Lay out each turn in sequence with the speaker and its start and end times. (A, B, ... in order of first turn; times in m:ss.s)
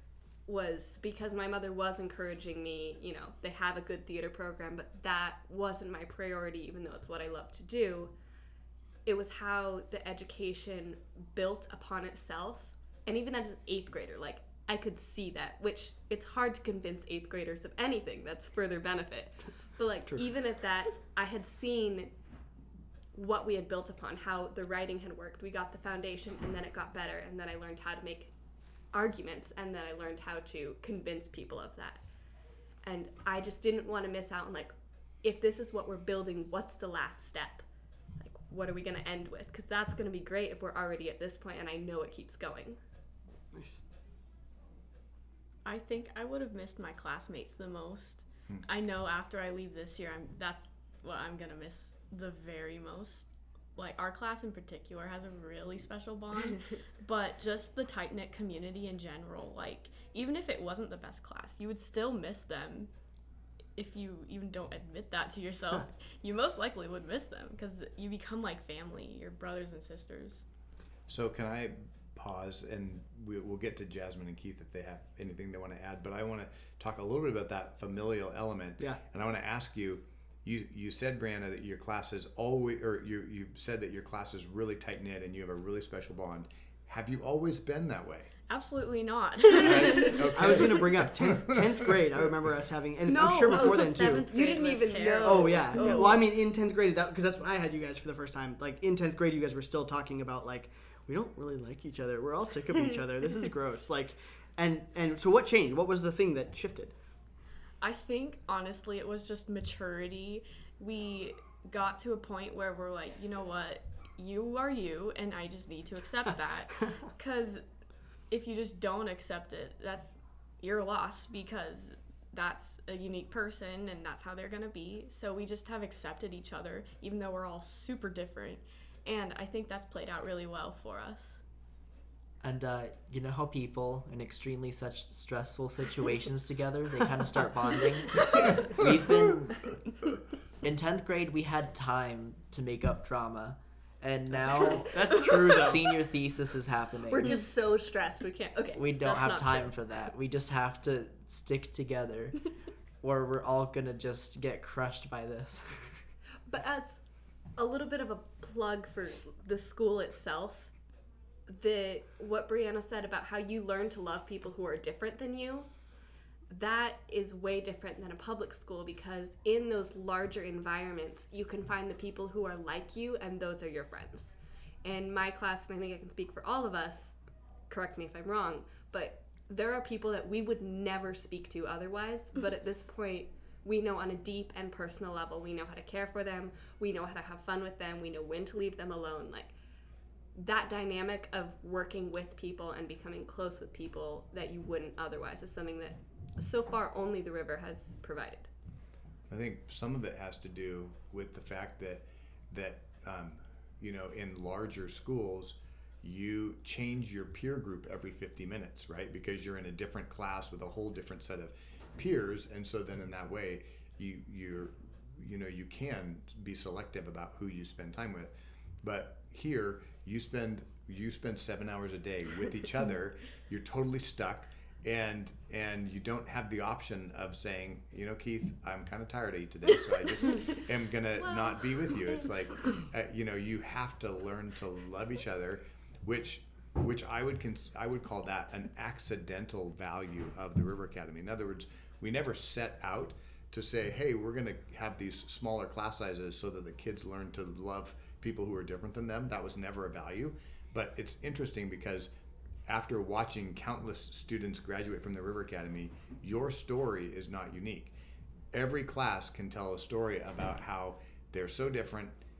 0:00.4-0:08.1 A
0:09.0-0:22.1 A
0:23.1-0:28.3 A
0:28.9-0:32.0 A
0:32.8-0:37.6 A
0:38.2-0:42.8 A
0:43.5-0:43.8 B
0:45.6-1:02.9 C
1:03.8-1:10.4 C
1:11.1-1:28.3 D
1:28.5-1:30.6 C
1:29.6-1:31.4 D
1:30.0-1:34.3 B
1:33.1-1:36.2 A
1:33.1-1:36.2 C
1:35.2-1:46.9 B
1:47.8-1:57.6 C
1:58.3-2:11.4 C
2:12.4-2:19.7 E
2:20.6-2:27.3 E
2:24.3-2:25.8 B
2:25.3-2:25.6 A
2:27.1-2:29.7 A
2:28.7-2:32.5 E
2:33.0-2:36.0 E
2:36.5-2:37.0 A
2:37.6-2:40.7 A
2:41.5-2:45.7 A
2:46.5-2:57.2 A
2:57.7-3:09.5 A
3:10.3-3:18.5 A
3:19.3-4:12.1 D
4:12.7-4:17.9 D
4:18.5-4:22.2 D